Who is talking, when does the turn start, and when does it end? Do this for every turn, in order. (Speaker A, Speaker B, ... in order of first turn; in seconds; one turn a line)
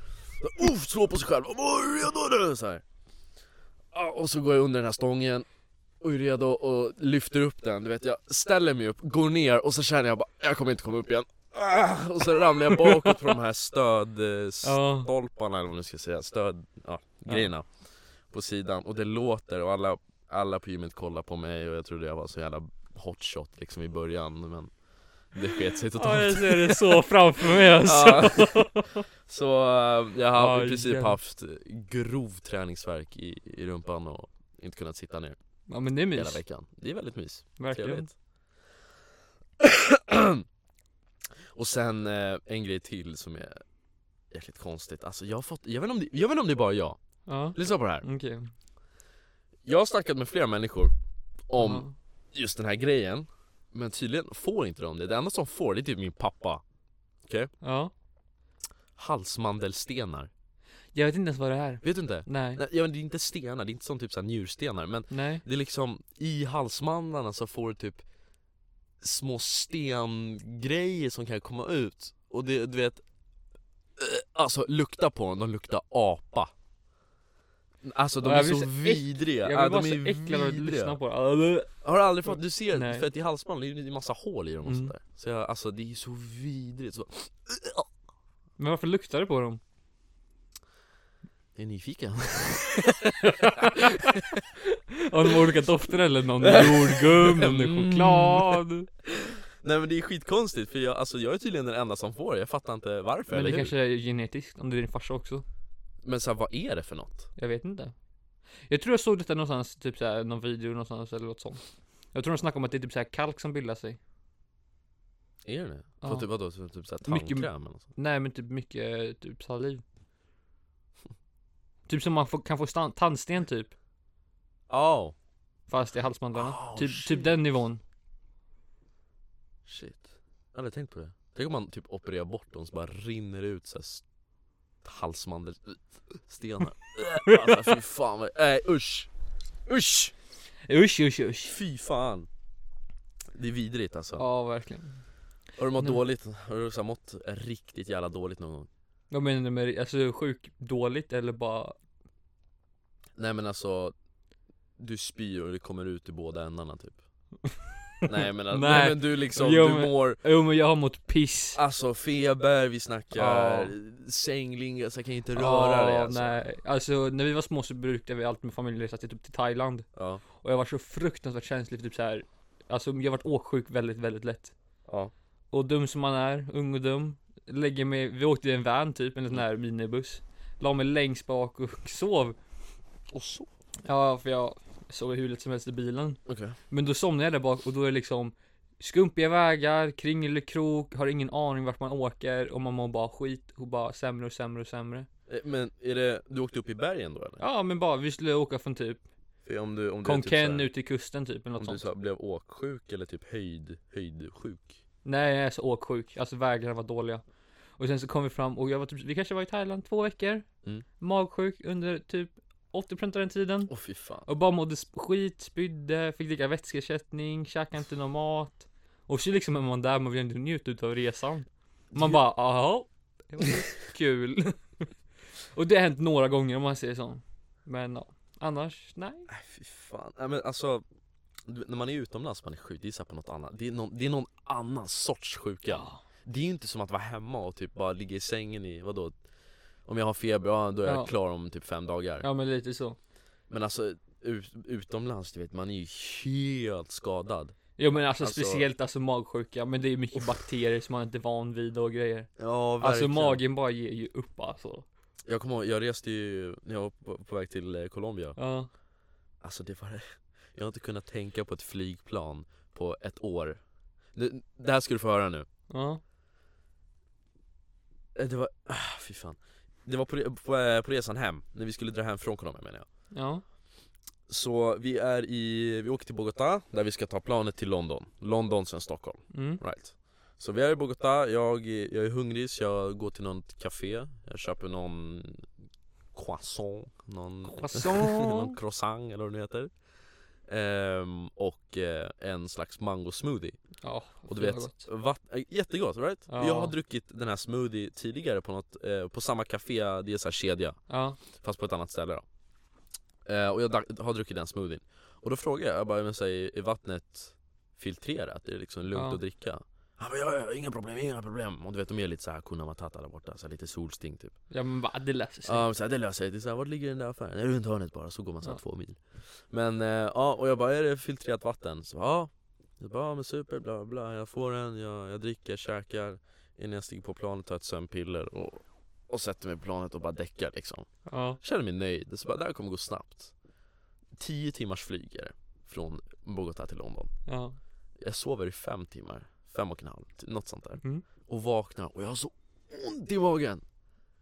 Speaker A: 0.2-2.8
Speaker A: 3.9-5.5
Speaker A: 6.0-17.7
Speaker B: 12.6-13.3
Speaker B: 14.6-15.1
Speaker A: 18.3-24.7
Speaker A: 25.3-27.0
Speaker B: 25.9-29.0
Speaker A: 27.6-28.6
Speaker A: 29.2-35.4
Speaker B: 30.3-31.2
Speaker B: 35.7-36.4
Speaker A: 36.1-38.1
Speaker B: 37.6-38.1
Speaker A: 39.6-40.4
Speaker A: 41.5-43.6
Speaker A: 44.3-47.0
Speaker B: 47.2-48.5
Speaker A: 47.5-48.0
Speaker A: 49.6-50.9
Speaker A: 51.5-56.6
Speaker B: 51.6-51.9
Speaker B: 57.6-57.9
Speaker A: 59.0-60.3
Speaker B: 60.9-62.6
Speaker A: 61.8-68.0
Speaker B: 65.1-65.4
Speaker A: 69.0-73.0
Speaker A: 74.0-76.5
Speaker A: 77.8-81.0
Speaker B: 78.2-81.7
Speaker A: 81.8-87.9
Speaker B: 82.2-83.1
Speaker B: 84.6-84.9
Speaker B: 88.6-89.6
Speaker A: 91.5-94.4
Speaker B: 93.0-98.9
Speaker A: 96.4-103.7
Speaker B: 103.3-105.4
Speaker A: 106.0-107.3
Speaker B: 107.4-107.9
Speaker B: 108.7-114.0
Speaker A: 115.4-117.9
Speaker B: 116.0-116.3
Speaker B: 117.0-119.8
Speaker B: 121.9-123.7
Speaker A: 124.7-125.1
Speaker B: 125.7-127.8
Speaker A: 126.3-127.4
Speaker A: 129.7-134.0
Speaker A: 134.8-139.1
Speaker B: 137.2-137.8
Speaker A: 139.7-140.1
Speaker B: 140.7-141.5
Speaker A: 141.4-142.3
Speaker A: 143.3-144.2
Speaker B: 144.2-145.0
Speaker A: 145.6-148.7
Speaker B: 149.1-151.8
Speaker A: 153.2-153.9
Speaker A: 154.8-157.0
Speaker B: 157.5-161.6
Speaker A: 158.0-160.2
Speaker A: 161.5-166.4
Speaker B: 163.1-163.7
Speaker B: 165.3-174.5
Speaker A: 169.9-170.2
Speaker A: 174.9-175.1
Speaker B: 175.5-182.4
Speaker A: 183.1-183.5
Speaker B: 183.8-195.1
Speaker A: 186.3-186.6
Speaker A: 195.3-197.4
Speaker B: 197.4-199.0
Speaker A: 199.4-200.7
Speaker B: 200.0-201.9
Speaker A: 201.5-204.8
Speaker B: 205.0-207.2
Speaker B: 207.8-210.4
Speaker B: 211.0-213.7
Speaker A: 213.7-214.3
Speaker B: 214.2-224.9
Speaker A: 221.9-222.2
Speaker B: 225.5-229.3
Speaker A: 229.3-230.8
Speaker A: 231.5-239.1
Speaker B: 235.7-236.0
Speaker A: 239.8-242.2
Speaker B: 240.8-241.1
Speaker B: 242.2-243.0
Speaker A: 243.5-247.5
Speaker B: 247.8-252.3
Speaker A: 248.2-248.7
Speaker A: 252.4-253.4
Speaker B: 252.8-254.8
Speaker A: 255.3-258.4
Speaker B: 258.4-258.7
Speaker A: 259.4-263.6
Speaker A: 264.1-265.4
Speaker B: 265.7-266.0
Speaker A: 268.1-272.9
Speaker B: 273.1-273.4
Speaker A: 274.3-285.5
Speaker B: 279.3-279.6
Speaker A: 286.1-289.7
Speaker B: 287.5-288.6
Speaker A: 290.5-293.6
Speaker B: 293.8-294.9
Speaker A: 294.3-300.8
Speaker B: 296.3-296.7
Speaker B: 300.9-301.2
Speaker A: 301.3-302.2
Speaker A: 303.2-314.3
Speaker B: 308.9-309.2
Speaker B: 314.5-315.6
Speaker A: 315.4-319.0
Speaker A: 319.5-330.9
Speaker B: 331.1-331.4
Speaker A: 331.4-333.3
Speaker A: 334.1-337.1
Speaker B: 337.2-337.6
Speaker A: 338.0-343.6